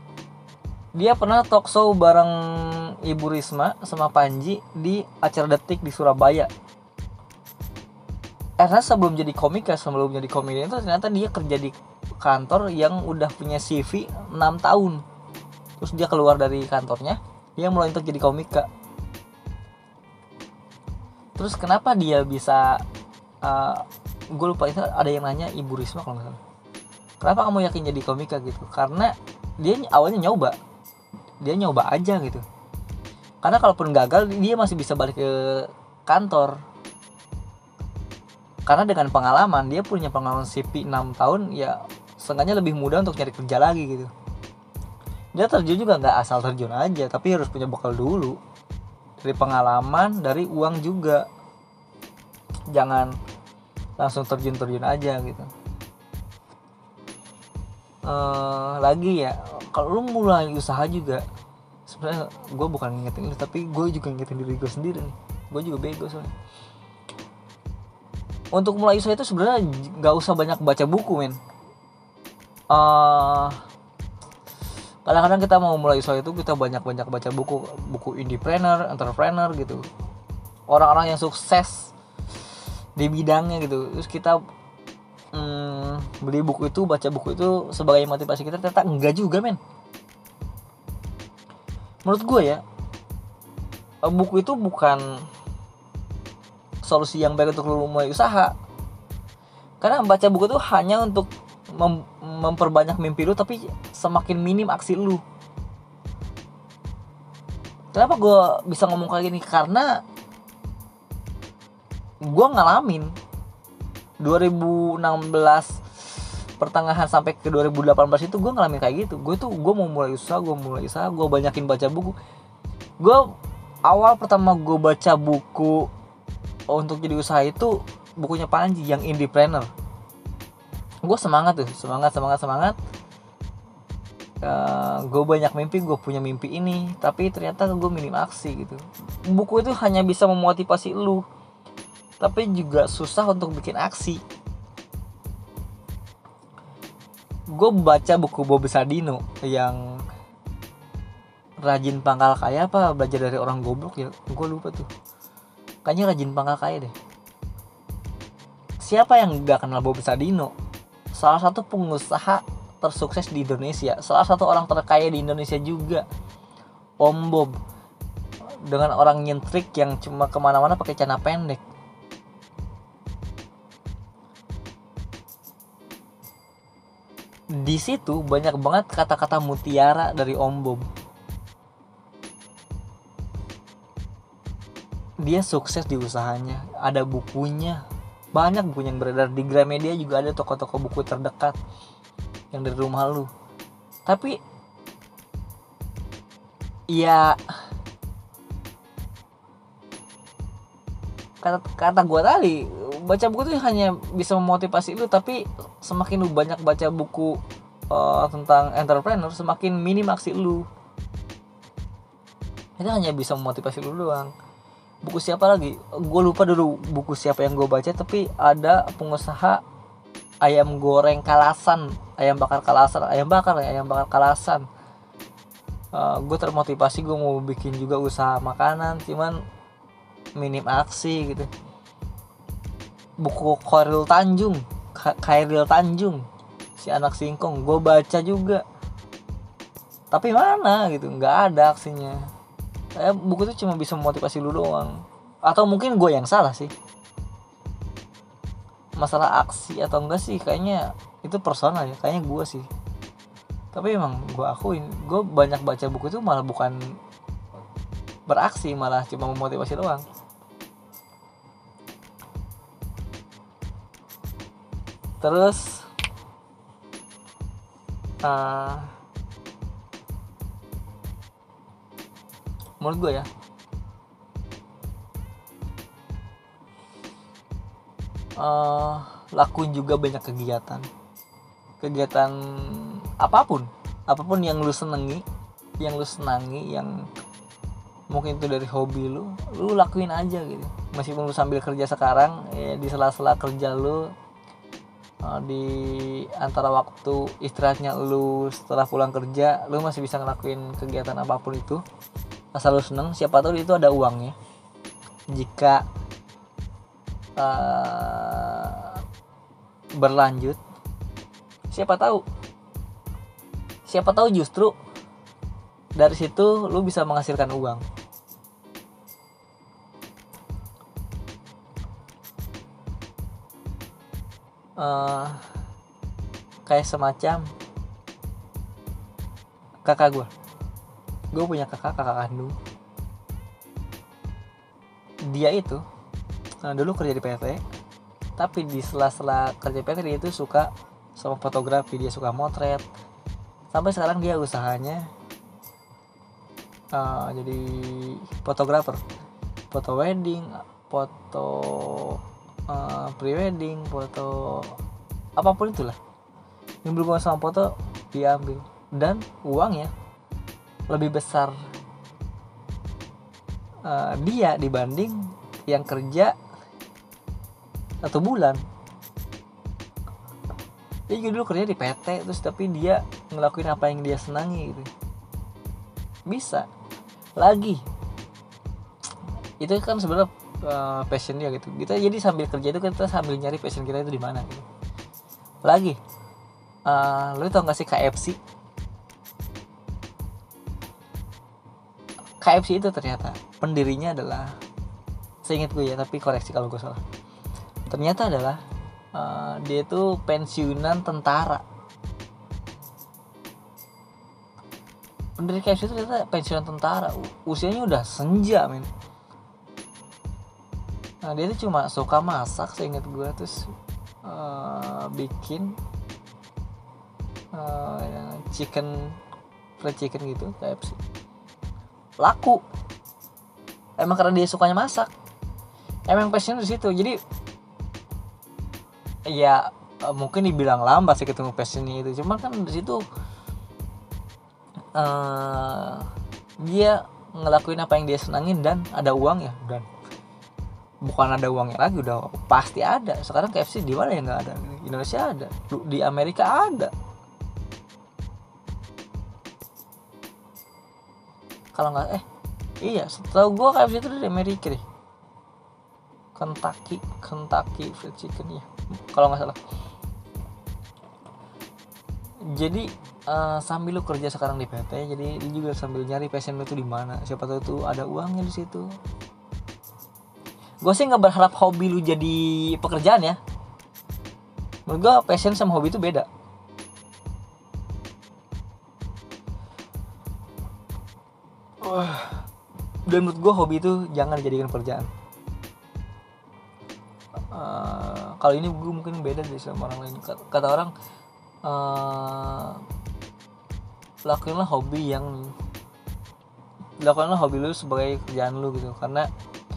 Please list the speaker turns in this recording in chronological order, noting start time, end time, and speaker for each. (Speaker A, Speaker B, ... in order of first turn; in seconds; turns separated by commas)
Speaker A: 0.9-6.5, Speaker A: 8.6-15.0, Speaker A: 15.8-18.7, Speaker A: 21.4-22.8, Speaker A: 23.4-26.4, Speaker A: 27.2-30.6, Speaker A: 31.4-32.4, Speaker A: 33.4-36.6, Speaker A: 38.7-44.1, Speaker A: 45.3-48.4, Speaker A: 49.2-51.2, Speaker A: 52.7-53.1, Speaker A: 54.0-55.5, Speaker A: 58.0-61.2, Speaker A: 61.9-66.3, Speaker A: 68.5-71.4, Speaker A: 72.7-73.6, Speaker A: 75.0-79.8, Speaker A: 80.7-81.9, Speaker A: 83.0-84.4, Speaker A: 85.3-89.6, Speaker A: 92.0-92.6, Speaker A: 94.0-95.2, Speaker A: 96.8-98.5, Speaker A: 99.8-105.2, Speaker A: 107.9-110.0, Speaker A: 112.2-113.1, Speaker A: 114.2-122.1, Speaker A: 123.0-123.3, Speaker A: 123.8-125.9, Speaker A: 126.7-129.7, Speaker A: 131.0-132.8, Speaker A: 134.4-141.2, Speaker A: 142.2-144.2, Speaker A: 147.5-149.8, Speaker A: 151.6-154.9, Speaker A: 155.8-156.9, Speaker A: 158.8-160.5, Speaker A: 161.1-166.0, Speaker A: 167.0-167.6, Speaker A: 168.7-171.6, Speaker A: 177.5-180.9, Speaker A: 185.2-191.6, Speaker A: 192.5-193.3, Speaker A: 194.1-194.4, Speaker A: 196.9-197.4, Speaker A: 201.4-207.4, Speaker A: 207.9-210.7, Speaker A: 212.8-214.3, Speaker A: 215.0-219.6, Speaker A: 220.4-224.6, Speaker A: 225.9-229.4, Speaker A: 230.4-231.5, Speaker A: 233.2-236.2, Speaker A: 236.8-238.6, Speaker A: 240.1-242.2, Speaker A: 242.9-244.9, Speaker A: 245.4-246.7, Speaker A: 249.0-252.7, Speaker A: 253.7-256.8, Speaker A: 258.3-260.0, Speaker A: 265.2-265.9, Speaker A: 268.2-268.9, Speaker A: 272.8-273.3, Speaker A: 278.4-280.9, Speaker A: 281.8-285.2, Speaker A: 285.8-287.0, Speaker A: 288.1-294.1, Speaker A: 295.2-301.8, Speaker A: 302.5-304.3, Speaker A: 305.3-305.8, Speaker A: 307.4-309.0, Speaker A: 310.0-310.6, Speaker A: 311.7-312.2, Speaker A: 313.9-314.7, Speaker A: 316.0-317.8, Speaker A: 324.8-325.4, Speaker A: 326.6-327.5, Speaker A: 329.8-330.3, Speaker A: 331.3-332.6, Speaker A: 335.3-335.8, Speaker A: 336.6-337.6, Speaker A: 338.4-342.8, Speaker A: 343.7-345.1, Speaker A: 346.9-349.0, Speaker A: 349.7-354.7, Speaker A: 355.4-356.0, Speaker A: 356.8-359.9, Speaker A: 360.9-361.5, Speaker A: 363.8-366.3, Speaker A: 368.0-368.6, Speaker A: 371.1-374.9, Speaker A: 376.3-376.7, Speaker A: 377.4-377.8, Speaker A: 379.6-384.7, Speaker A: 385.6-386.0, Speaker A: 386.9-388.4, Speaker A: 392.4-394.6, Speaker A: 395.4-397.0, Speaker A: 397.9-398.6, Speaker A: 399.1-401.6, Speaker A: 405.4-408.9, Speaker A: 411.2-413.7, Speaker A: 414.2-415.7, Speaker A: 417.5-419.1, Speaker A: 419.8-421.0, Speaker A: 422.2-422.6, Speaker A: 424.0-425.1, Speaker A: 426.1-427.2, Speaker A: 429.3-433.0, Speaker A: 434.9-436.1, Speaker A: 436.6-439.9, Speaker A: 441.0-446.9, Speaker A: 451.7-452.2, Speaker A: 452.8-454.8, Speaker A: 456.4-459.6, Speaker A: 462.5-468.9, Speaker A: 470.8-473.4, Speaker A: 474.9-476.3, Speaker A: 481.8-482.4, Speaker A: 483.1-485.1, Speaker A: 487.5-490.9, Speaker A: 491.6-492.8, Speaker A: 494.2-495.5, Speaker A: 497.0-499.3